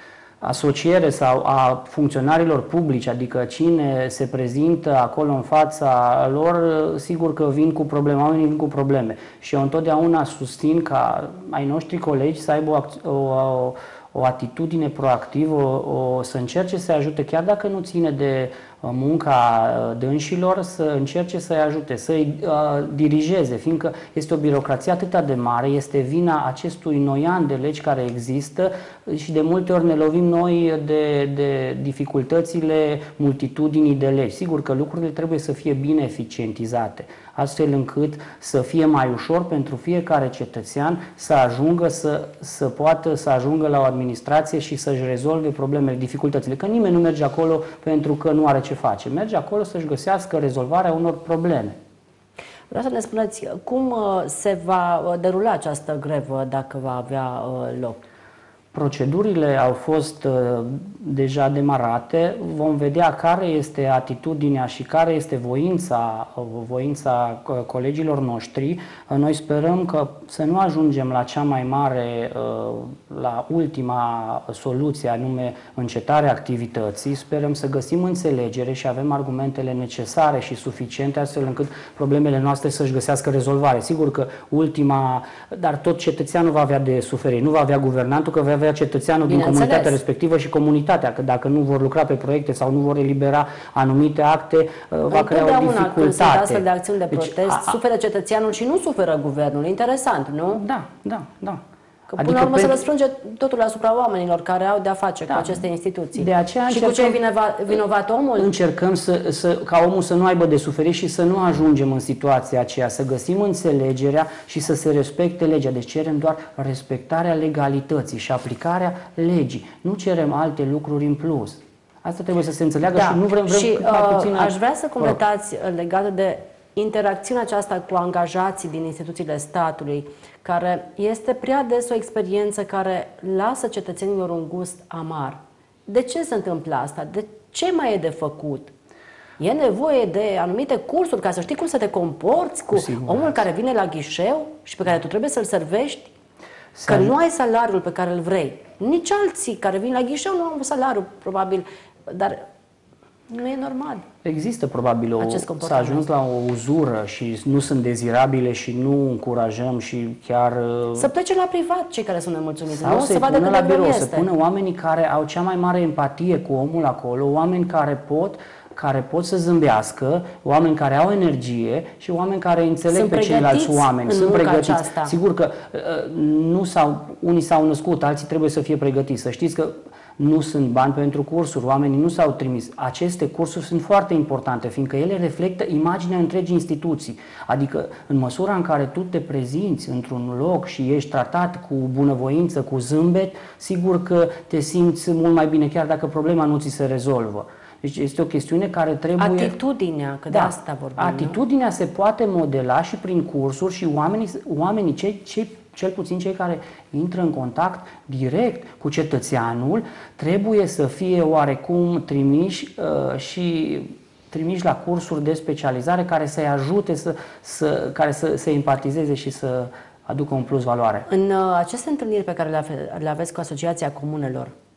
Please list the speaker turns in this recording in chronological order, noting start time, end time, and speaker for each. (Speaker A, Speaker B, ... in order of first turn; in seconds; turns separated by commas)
Speaker A: 0.4-51.8, Speaker B: 52.7-58.0, Speaker A: 58.7-97.8, Speaker B: 89.2-90.0, Speaker B: 95.1-100.6, Speaker A: 100.5-101.6, Speaker B: 102.1-108.5, Speaker A: 102.2-102.8, Speaker A: 105.3-105.6, Speaker A: 106.2-107.2, Speaker A: 108.4-125.1, Speaker B: 122.9-138.7, Speaker B: 139.4-146.1, Speaker A: 142.7-143.4, Speaker A: 146.7-147.1, Speaker B: 146.9-152.4, Speaker B: 153.3-154.1, Speaker A: 154.2-161.1, Speaker B: 155.2-156.1, Speaker B: 160.9-164.3, Speaker A: 162.7-199.5, Speaker B: 172.9-175.1, Speaker B: 199.2-201.4, Speaker A: 200.3-221.1, Speaker B: 221.1-224.5